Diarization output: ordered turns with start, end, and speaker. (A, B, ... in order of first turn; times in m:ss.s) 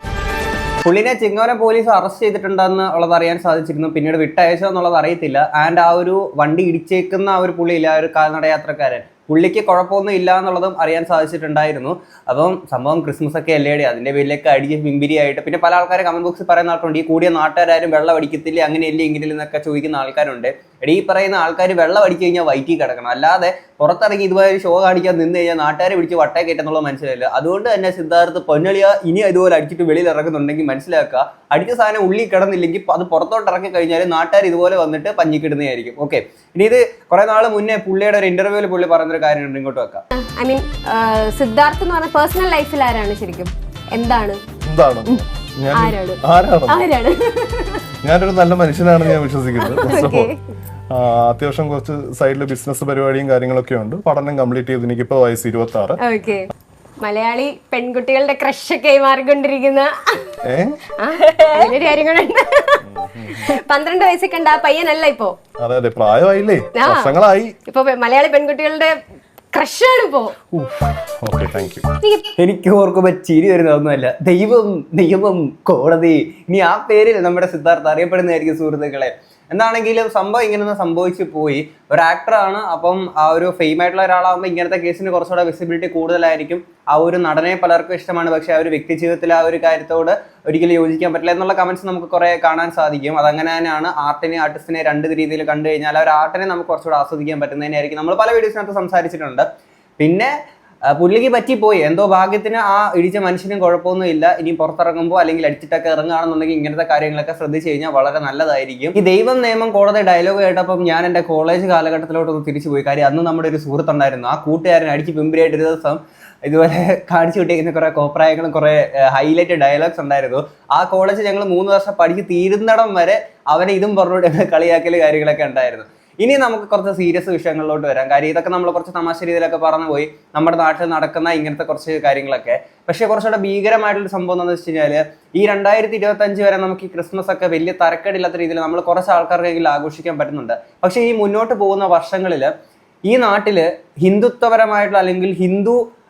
0:00.8-0:40.0 A
0:40.1-0:44.4 B
0:44.7-0:46.9 C
0:45.7-0:47.8 B
0:48.0-0:50.3 C
0:49.6-0:50.4 B
0:50.9-0:56.0 C
0:56.0-0:56.5 B
0:57.0-1:00.2 B
1:00.5-1:00.8 C
1:01.0-1:02.8 B
1:02.9-1:03.4 C
1:03.4-1:05.4 B
1:05.6-1:07.6 C
1:06.8-1:07.1 B
1:07.7-1:09.0 B
1:09.5-1:10.3 B
1:11.2-1:11.9 C
1:12.4-1:39.4 A
1:40.0-1:40.3 A
1:41.0-2:22.5 A
2:23.1-2:25.8 A